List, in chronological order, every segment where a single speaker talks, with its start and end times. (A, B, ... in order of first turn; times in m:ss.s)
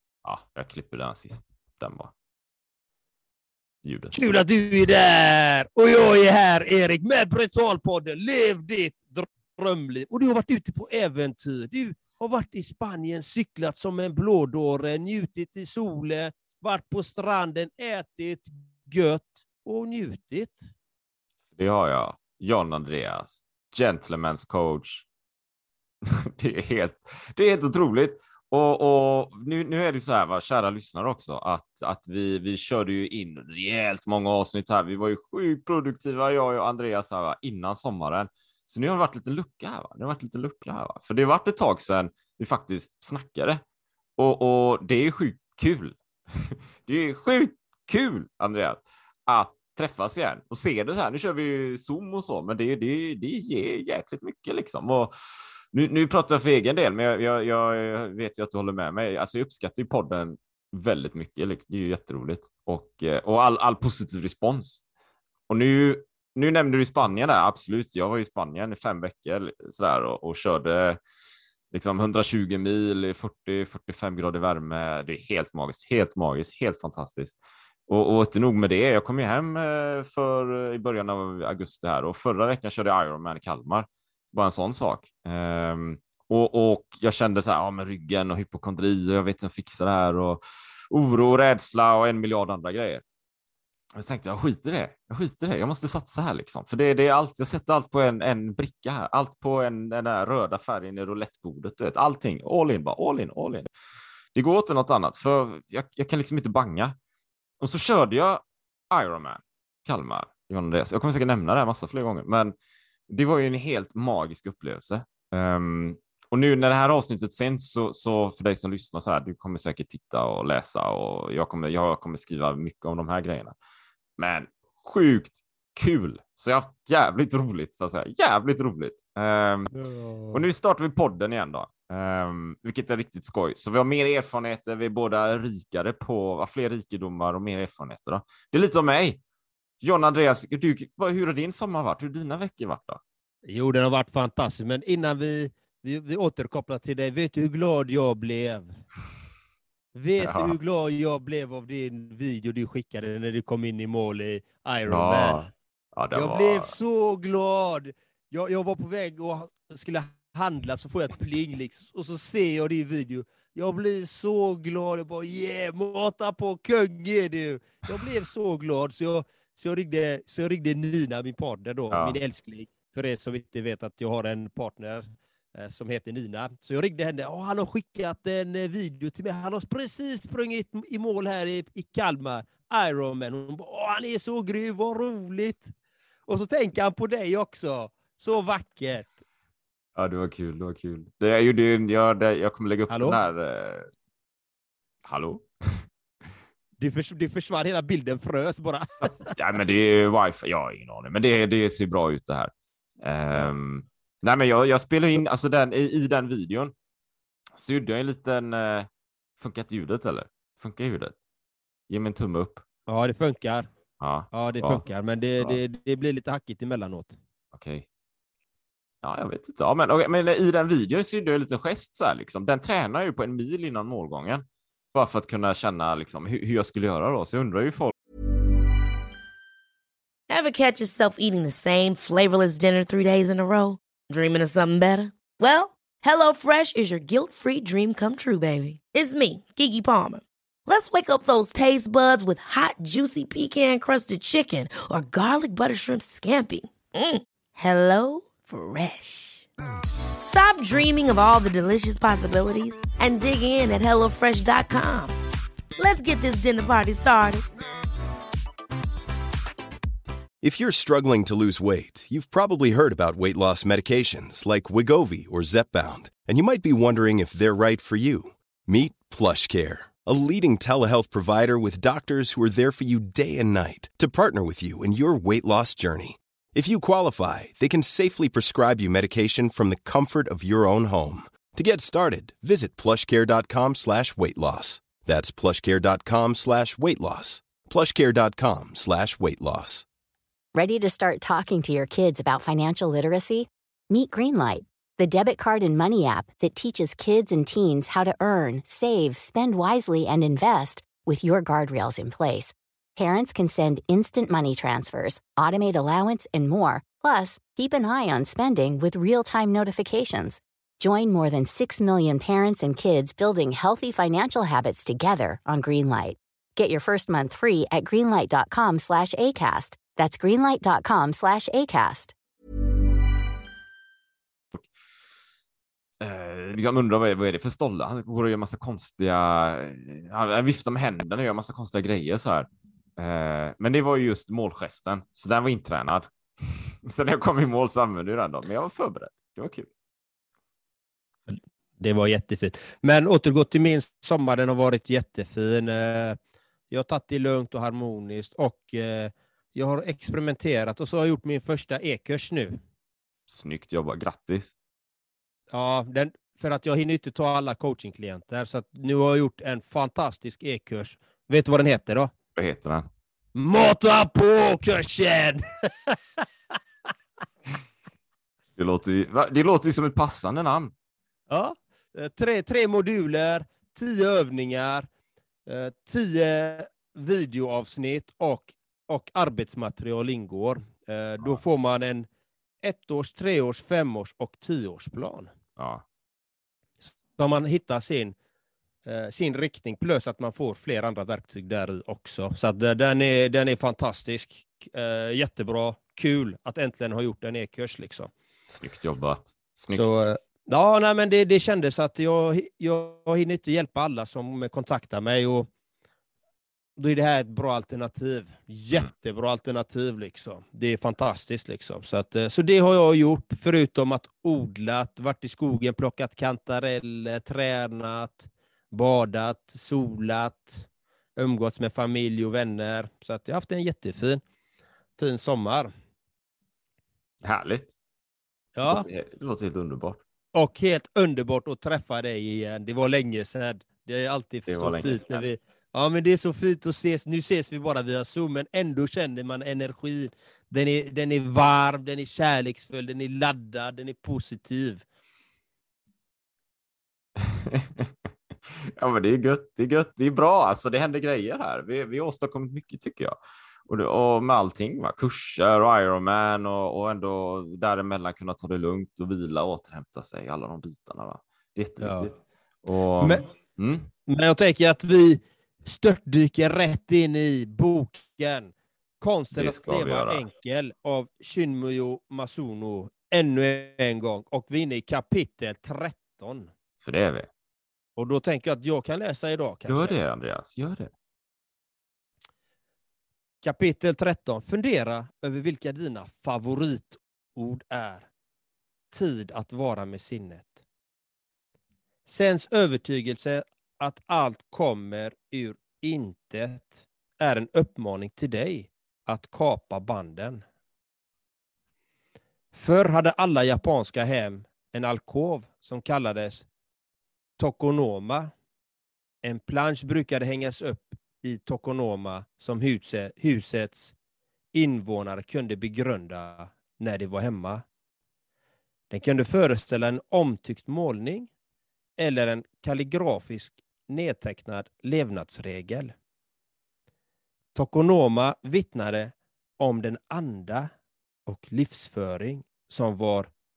0:00.2-0:02.1 A
0:03.8-0:04.2 A
0:04.1-0:20.7 B
0:21.5-0:25.0 A
0:26.0-0:43.6 A
0:44.2-0:55.1 A
0:55.7-1:04.8 A
1:05.5-1:11.0 A
1:11.7-1:17.4 A
1:17.9-1:33.0 A
1:33.9-1:43.7 A
1:44.3-1:47.0 A
1:47.6-1:52.5 A
1:53.1-2:03.5 A
2:04.2-2:09.7 A
2:09.7-2:10.4 B
2:10.3-2:19.2 A
2:19.8-2:23.0 A
2:23.4-2:28.7 B
2:29.9-2:35.4 B
2:30.2-2:30.6 A
2:34.9-2:36.8 A
2:36.1-3:05.7 B
2:51.9-2:52.2 A
3:06.3-3:09.2 B
3:10.0-3:13.9 A
3:12.9-3:13.2 B
3:15.0-3:15.8 A
3:16.8-3:19.3 B
3:19.3-3:22.5 A
3:23.0-3:26.7 A
3:27.5-3:31.1 A
3:31.9-3:32.6 A
3:32.9-3:33.7 B
3:34.0-3:34.8 A
3:34.3-3:37.2 B
3:37.5-3:37.8 A
3:39.0-3:47.9 A
3:50.3-4:09.4 C
4:10.2-4:15.2 C
4:15.8-4:17.4 C
4:20.4-4:49.8 D
4:50.5-5:22.1 E
5:26.0-5:39.7 A
5:41.3-5:46.2 B
5:46.7-5:52.6 B
5:53.3-5:54.5 A
5:55.5-6:02.1 B
6:02.4-6:02.9 A
6:03.3-6:06.0 B
6:08.6-6:10.7 A
6:11.3-6:14.9 B
6:15.4-6:22.0 B
6:22.6-6:25.3 B
6:25.6-6:25.8 A
6:26.8-6:28.1 B
6:28.8-6:38.1 B
6:38.5-6:39.9 A
6:39.7-6:45.5 B
6:46.8-7:04.2 B
7:05.0-7:05.7 B
7:07.2-7:07.7 A
7:08.6-7:08.8 B
7:08.6-7:10.0 A
7:10.3-7:24.8 B
7:14.5-7:15.2 A
7:27.2-7:27.9 A
7:28.6-7:42.1 A
7:41.8-7:42.1 B
7:42.6-7:43.9 A
7:44.1-7:56.5 B
7:49.3-7:50.2 A
7:56.8-7:57.3 A
7:58.0-8:00.0 B
7:59.7-8:00.9 A
8:03.4-8:08.1 B
8:08.9-8:10.6 B
8:12.0-8:20.4 B
8:22.5-8:26.4 B
8:27.4-8:28.3 B
8:29.2-8:33.9 B
8:34.5-8:37.6 B
8:38.9-8:41.3 B
8:42.0-8:45.9 B
8:47.5-8:50.7 B
8:51.2-8:53.3 B